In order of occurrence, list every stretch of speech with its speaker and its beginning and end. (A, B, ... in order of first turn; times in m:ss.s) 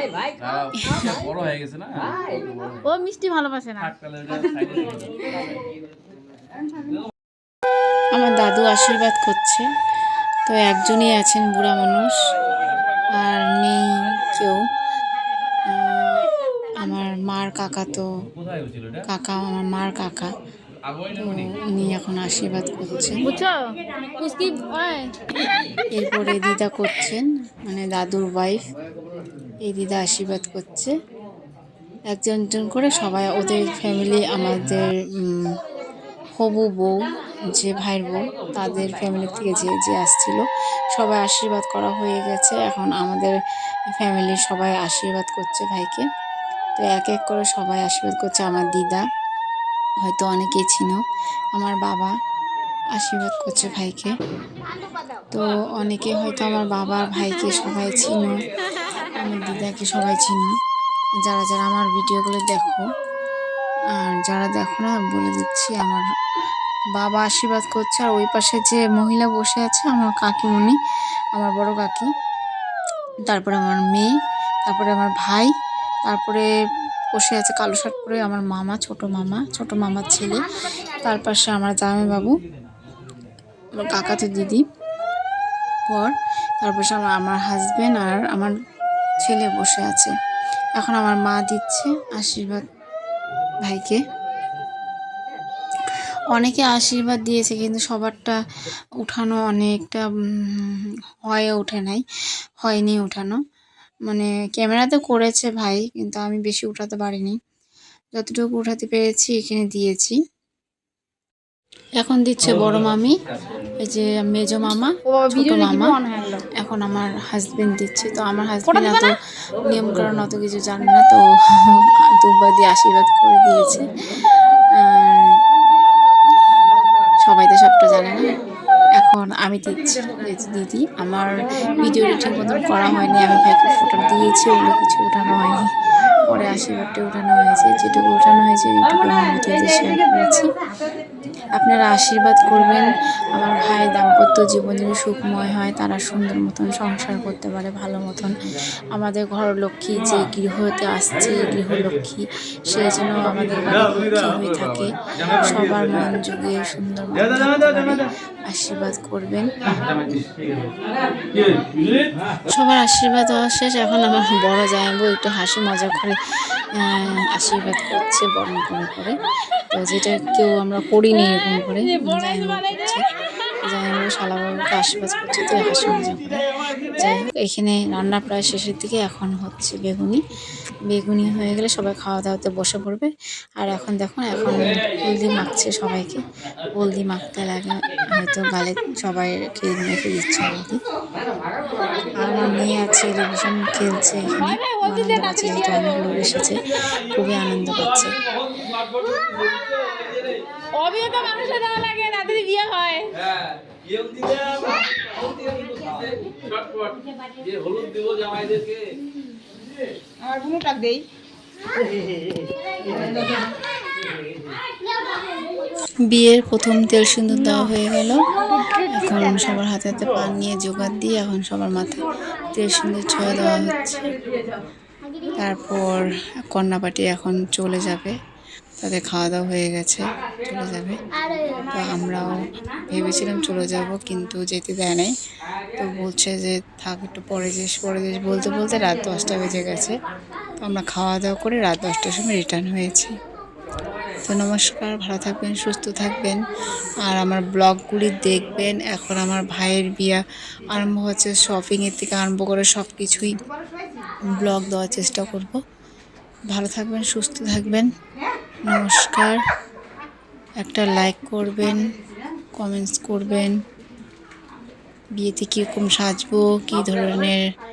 0:00.4-0:02.8 A
0:00.8-0:01.2 B
0:02.8-0:05.1 C
0:03.8-0:05.5 A
0:08.1-0:09.7 B
0:10.5-0:12.2 B
0:13.1-0:14.6 B
0:15.7-0:16.3 B
0:16.8-0:18.1 B
0:18.4-0:19.1 A
0:19.1-0:20.3 B
0:20.9-0:21.5 A
0:21.2-0:23.2 B
0:23.2-0:25.1 C
0:25.9-0:28.7 B
0:29.6-0:30.9 B
0:32.1-0:35.6 B
0:36.4-0:40.4 B
0:40.9-0:43.4 B
0:43.9-0:46.0 B
0:46.8-0:49.0 B
0:50.0-0:51.0 B
0:51.6-0:52.1 B
0:53.0-0:54.1 B
0:55.3-0:58.4 B
0:59.2-1:00.5 B
1:01.2-1:02.8 B
1:03.9-1:06.0 B
1:07.0-1:10.8 B
1:11.4-1:12.1 B
1:13.3-1:14.1 B
1:14.6-1:15.5 B
1:16.0-1:16.5 B
1:17.2-1:22.4 B
1:23.8-1:24.6 B
1:25.9-1:28.6 B
1:29.2-1:30.1 B
1:30.8-1:32.6 B
1:33.6-1:34.0 B
1:36.3-1:38.4 B
1:39.0-1:42.0 B
1:42.6-1:43.4 B
1:44.1-1:47.4 B
1:48.2-1:50.2 B
1:52.0-1:53.2 B
1:53.8-1:56.0 B
1:55.1-1:56.4 C
1:56.6-2:05.4 B
1:58.7-1:59.1 C
2:07.2-2:08.3 B
2:09.0-2:15.7 B
2:16.2-2:20.5 B
2:21.6-2:28.4 B
2:28.9-2:39.5 B
2:34.3-2:34.6 A
2:35.2-2:35.8 A
2:39.7-2:40.8 A
2:41.3-2:42.2 A
2:42.5-2:46.2 B
2:46.7-2:49.2 B
2:49.7-2:53.0 B
2:52.0-2:52.6 C
2:53.7-3:00.2 B
3:00.9-3:06.2 B
3:06.7-3:10.8 B
3:12.1-3:18.2 B
3:14.4-3:16.2 C
3:17.1-3:20.4 A
3:20.8-3:23.1 C
3:23.2-3:28.8 A
3:30.3-3:31.0 C
3:36.1-3:38.3 B
3:38.8-3:44.2 B
3:45.4-3:48.2 B
3:48.8-3:51.0 B
3:51.6-3:55.1 B
3:55.8-4:00.0 B
4:00.6-4:03.2 B
4:04.2-4:06.4 B
4:07.0-4:10.2 B
4:10.7-4:13.4 B
4:14.2-4:15.6 B
4:16.5-4:17.9 B
4:18.6-4:19.4 B
4:20.6-4:21.8 B
4:22.6-4:23.6 B
4:25.2-4:27.4 B